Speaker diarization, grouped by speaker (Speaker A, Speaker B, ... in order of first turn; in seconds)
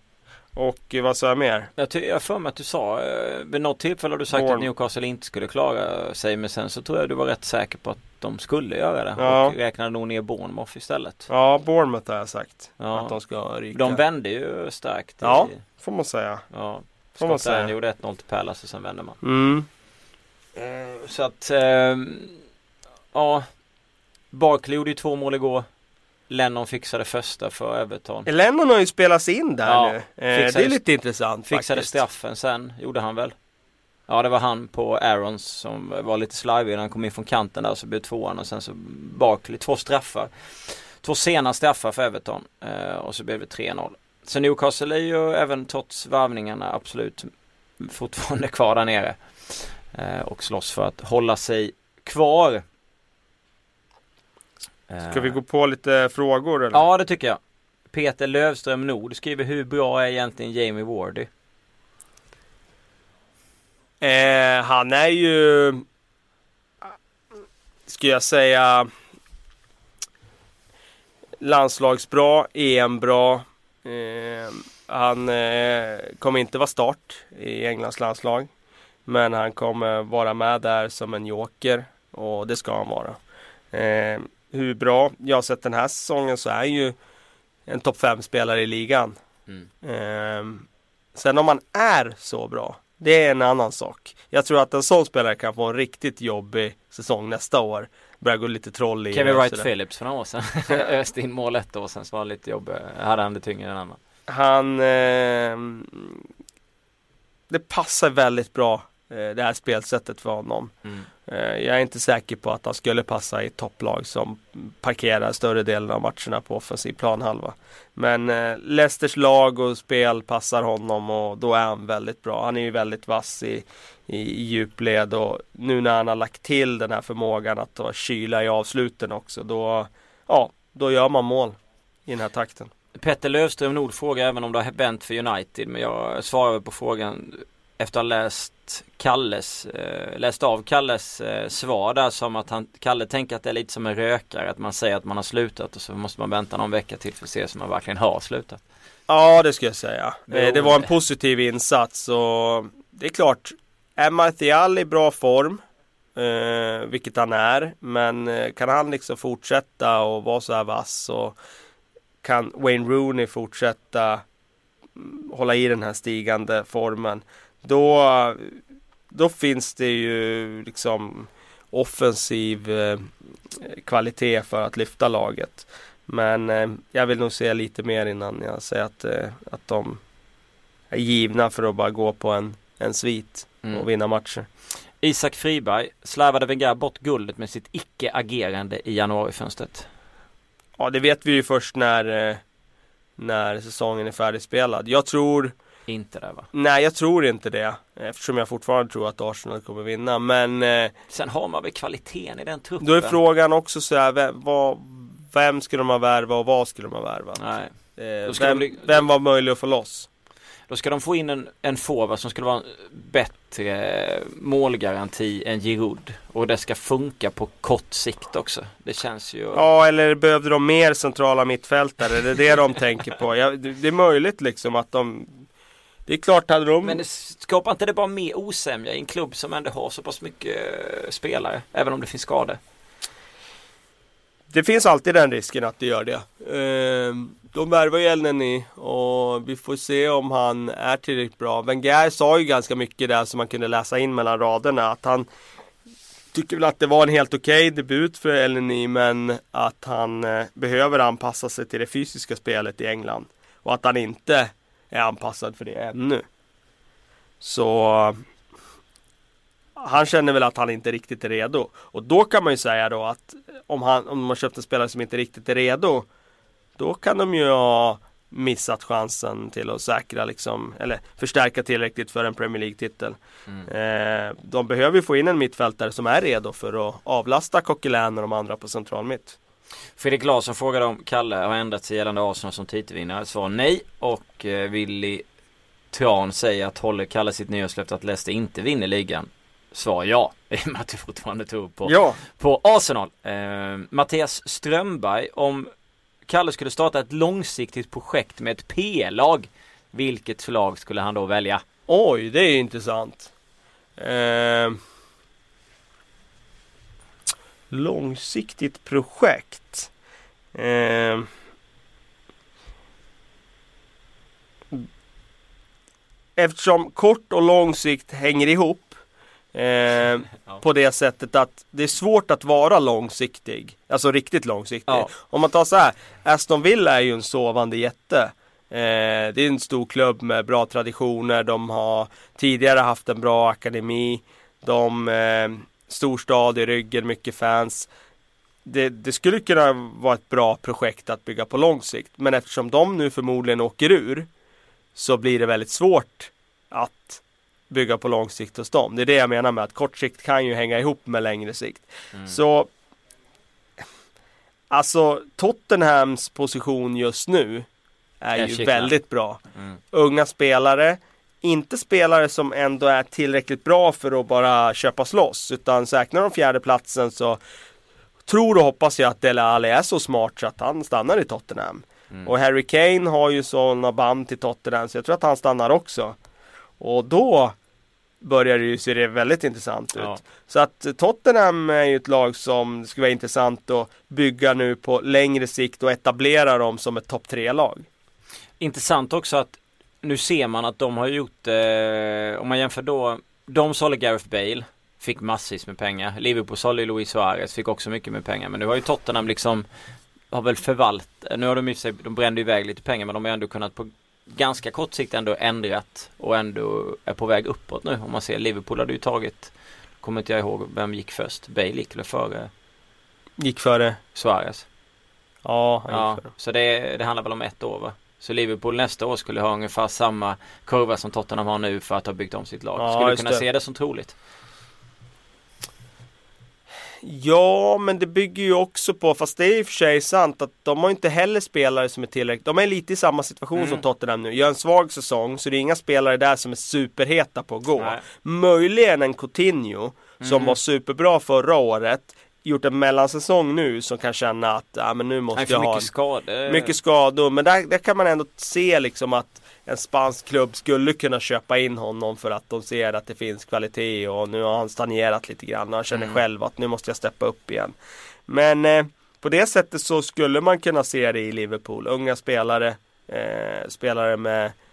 Speaker A: 0.6-1.7, 4.3-4.7, 9.2-9.6, 11.3-14.0, 15.2-16.5, 17.2-17.7, 19.2-19.7, 28.3-32.0, 55.1-56.8, 64.0-65.8, 67.9-68.9, 71.4-78.5, 79.1-83.2, 83.7-87.0, 87.7-89.2, 89.8-99.7, 104.3-106.2, 107.5-110.7, 111.3-132.7, 149.1-155.6, 156.2-161.4, 162.2-164.2, 165.0-168.6, 169.1-180.0, 180.9-184.5, 190.8-192.4, 193.2-195.5, 196.5-200.9, 202.8-210.1, 219.5-225.5, 226.1-227.0, 234.5-245.3, 246.3-256.3, 257.4-258.2, 259.8-266.1, 266.8-279.4, 291.9-292.2, 301.9-303.3, 304.0-304.8, 307.7-309.9, 310.5-311.3, 316.4-319.0, 319.5-337.9, 338.6-344.3, 344.9-352.7, 354.7-357.7, 358.2-359.4, 359.9-367.4, 368.3-376.2, 376.8-377.6, 378.2-387.9, 413.4-414.0, 415.4-416.3, 422.8-423.4, 427.0-445.9, 446.5-457.7, 458.3-464.5
Speaker B: 1.8-11.3, 12.8-13.2, 13.7-15.6, 16.5-19.2, 20.6-22.4, 23.1-23.5, 24.3-25.7, 26.3-28.3, 29.7-30.8, 31.5-33.4, 34.1-52.6, 54.9-55.4, 56.7-57.4, 57.9-61.3, 99.1-104.0, 132.9-148.6, 150.3-150.9, 185.0-189.9, 195.9-196.5, 201.1-203.2, 207.4-209.1, 210.7-219.7, 226.8-232.6, 280.0-285.2, 285.9-295.7, 296.3-301.6, 358.4-358.9, 388.6-399.7, 400.3-412.5, 414.1-414.7, 415.9-424.1, 433.6-433.8, 437.8-438.0, 440.2-440.6, 445.4-446.8, 455.9-456.2